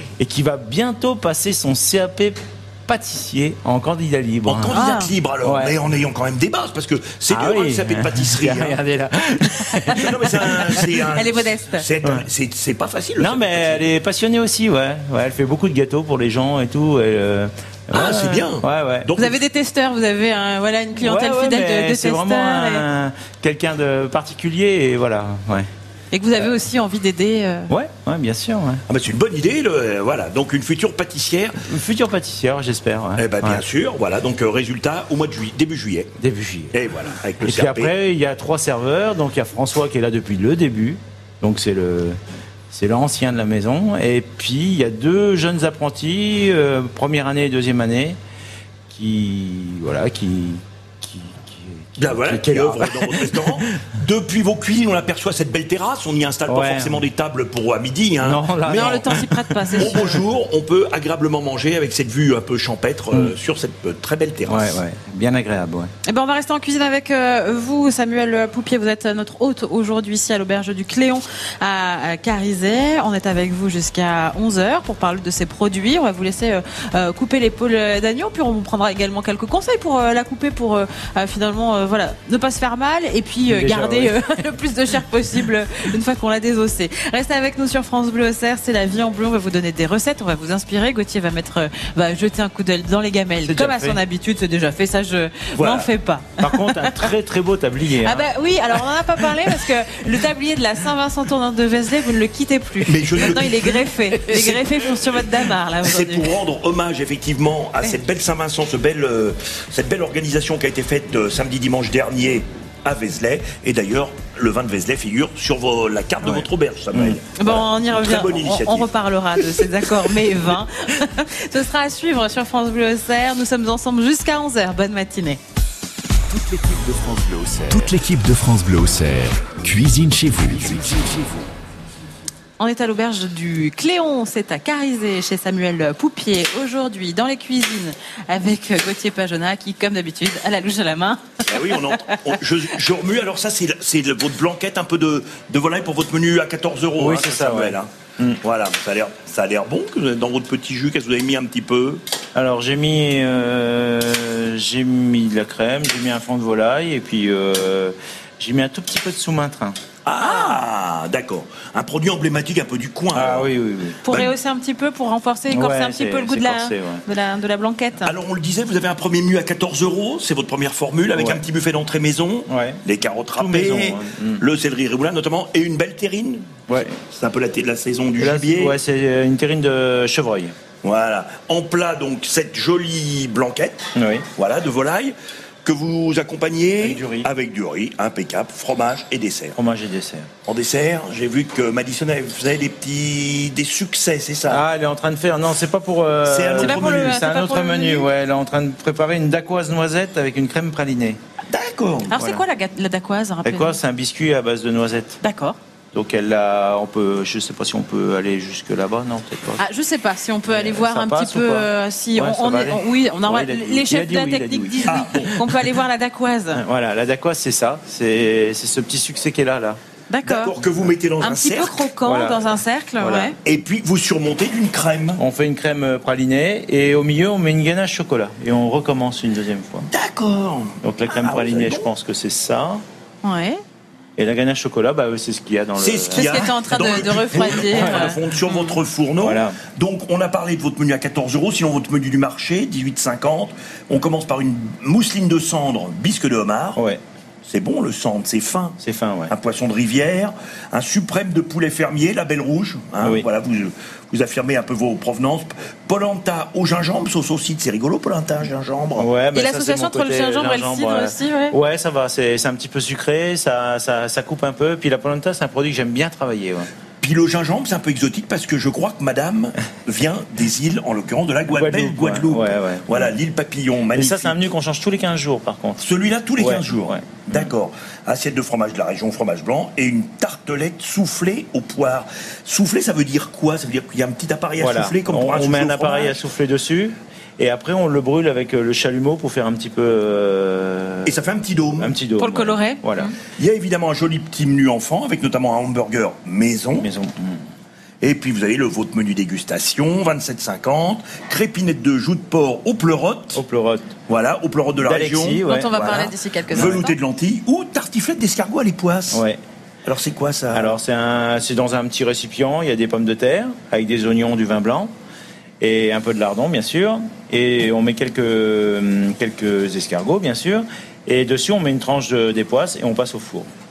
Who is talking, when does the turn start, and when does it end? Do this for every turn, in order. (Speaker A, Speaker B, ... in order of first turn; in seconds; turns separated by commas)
Speaker A: 0.2-4.8, Speaker B: 4.5-8.8, Speaker C: 4.7-5.1, Speaker A: 5.4-5.7, Speaker A: 7.3-11.0, Speaker B: 9.9-13.8, Speaker C: 11.1-11.9, Speaker A: 13.2-19.1, Speaker B: 17.9-19.4, Speaker C: 19.2-22.9, Speaker A: 21.0-25.7, Speaker C: 26.1-27.7, Speaker A: 27.7-28.8, Speaker B: 28.9-31.6, Speaker A: 31.7-33.6, Speaker B: 33.2-36.1, Speaker A: 36.2-36.7, Speaker B: 36.7-37.9, Speaker A: 37.4-42.2, Speaker A: 42.7-48.2, Speaker A: 48.9-53.8, Speaker B: 52.0-59.2, Speaker A: 56.5-57.0, Speaker A: 58.2-60.1, Speaker C: 58.7-60.2, Speaker B: 59.8-64.8, Speaker A: 64.5-65.9, Speaker C: 66.0-97.1, Speaker A: 83.5-84.4, Speaker A: 93.5-94.0, Speaker B: 95.6-95.9, Speaker A: 96.4-98.3, Speaker C: 98.0-106.3, Speaker B: 102.8-105.3, Speaker B: 105.8-118.9, Speaker A: 116.2-117.2, Speaker C: 117.4-125.4, Speaker D: 126.3-131.5, Speaker C: 132.6-142.1, Speaker B: 141.5-147.9, Speaker A: 147.0-148.4, Speaker B: 148.4-152.0, Speaker A: 152.3-159.8, Speaker B: 160.1-163.5, Speaker C: 160.2-160.6, Speaker A: 163.1-164.0, Speaker C: 164.0-168.1, Speaker B: 164.1-164.3, Speaker A: 165.5-167.0, Speaker B: 168.1-178.8, Speaker A: 171.1-171.4, Speaker A: 172.5-172.8, Speaker A: 173.4-174.4, Speaker A: 176.7-177.0, Speaker A: 178.2-180.6, Speaker B: 180.8-189.6, Speaker A: 183.9-184.3, Speaker A: 186.8-187.3, Speaker A: 189.6-190.3, Speaker B: 190.5-194.6, Speaker A: 194.5-201.2, Speaker B: 196.3-197.2, Speaker C: 196.6-198.1, Speaker B: 201.5-202.2, Speaker C: 202.1-203.8, Speaker A: 202.2-202.4, Speaker A: 203.4-205.2, Speaker C: 205.2-205.6, Speaker A: 205.9-209.6, Speaker C: 209.6-216.6, Speaker A: 210.5-215.1, Speaker B: 214.9-215.4, Speaker A: 216.5-219.8, Speaker C: 220.1-220.5, Speaker B: 220.2-221.8, Speaker C: 221.2-223.4, Speaker A: 222.1-222.5, Speaker A: 223.0-223.3, Speaker B: 223.4-225.2, Speaker A: 225.2-229.9, Speaker B: 229.9-231.9, Speaker A: 230.8-232.8, Speaker C: 233.2-233.6, Speaker A: 234.2-238.2, Speaker B: 235.8-246.8, Speaker C: 236.1-238.7, Speaker A: 239.2-239.6, Speaker B: 247.4-259.1, Speaker A: 248.8-249.3, Speaker A: 259.0-266.7, Speaker C: 259.4-261.6, Speaker B: 267.0-274.4, Speaker A: 271.5-273.1, Speaker A: 273.9-275.8, Speaker B: 275.8-286.2, Speaker A: 276.4-277.5, Speaker A: 284.6-291.2, Speaker B: 291.1-291.9, Speaker A: 291.8-293.1, Speaker C: 292.2-293.2, Speaker B: 293.4-296.9, Speaker A: 296.8-297.4, Speaker B: 298.0-303.4, Speaker A: 303.3-304.0, Speaker B: 304.1-309.2, Speaker A: 304.8-306.1, Speaker C: 305.4-307.0, Speaker A: 309.1-309.4, Speaker B: 309.9-310.7, Speaker A: 310.5-314.9, Speaker A: 315.6-323.5